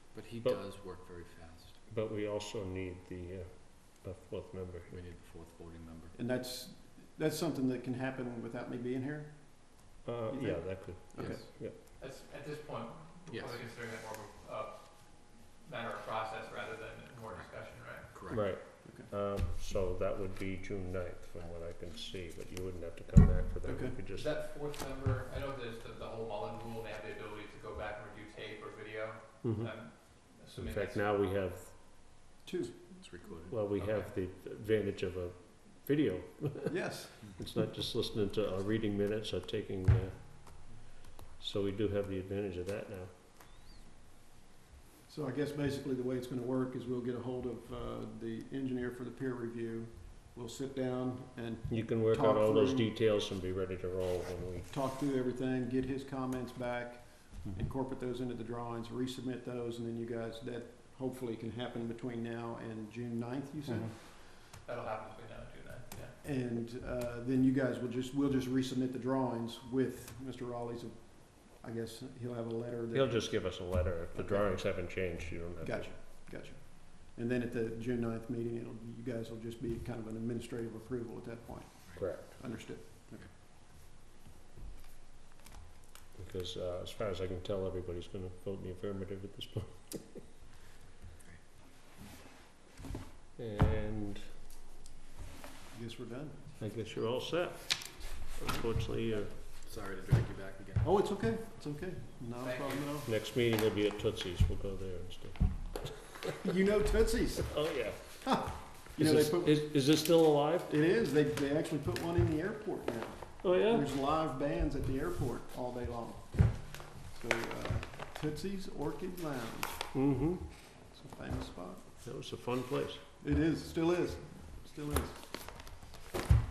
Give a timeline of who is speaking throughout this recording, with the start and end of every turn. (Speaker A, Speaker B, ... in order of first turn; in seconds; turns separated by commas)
Speaker A: 0.1-1.8, Speaker B: 1.9-5.0, Speaker A: 4.9-6.2, Speaker C: 6.1-11.4, Speaker B: 10.1-11.8, Speaker A: 11.2-11.4, Speaker D: 12.0-18.1, Speaker A: 13.3-13.6, Speaker A: 18.1-18.5, Speaker B: 18.3-24.3, Speaker C: 18.8-19.1, Speaker C: 23.6-24.0, Speaker D: 24.1-31.1, Speaker B: 29.4-32.1, Speaker C: 32.4-32.7, Speaker A: 32.9-34.1, Speaker B: 33.5-40.8, Speaker C: 36.7-37.1, Speaker B: 41.4-43.1, Speaker C: 45.1-52.9, Speaker B: 51.7-54.7, Speaker C: 54.7-63.9, Speaker B: 63.7-63.9, Speaker D: 64.3-66.1, Speaker C: 66.2-75.1, Speaker B: 72.9-76.0, Speaker C: 75.6-83.3, Speaker B: 82.0-82.4, Speaker B: 86.2-90.2, Speaker B: 93.4-94.2, Speaker C: 95.7-96.4, Speaker B: 96.6-99.3, Speaker A: 99.7-100.9, Speaker C: 100.8-103.1, Speaker D: 102.4-102.9, Speaker B: 103.1-105.4, Speaker C: 106.4-107.6, Speaker B: 107.5-108.2, Speaker C: 108.2-109.7, Speaker B: 109.0-110.7, Speaker C: 110.7-116.4, Speaker B: 113.4-113.9, Speaker C: 117.0-119.9, Speaker B: 119.9-120.4, Speaker C: 120.9-121.9, Speaker B: 122.0-123.0, Speaker C: 123.2-125.3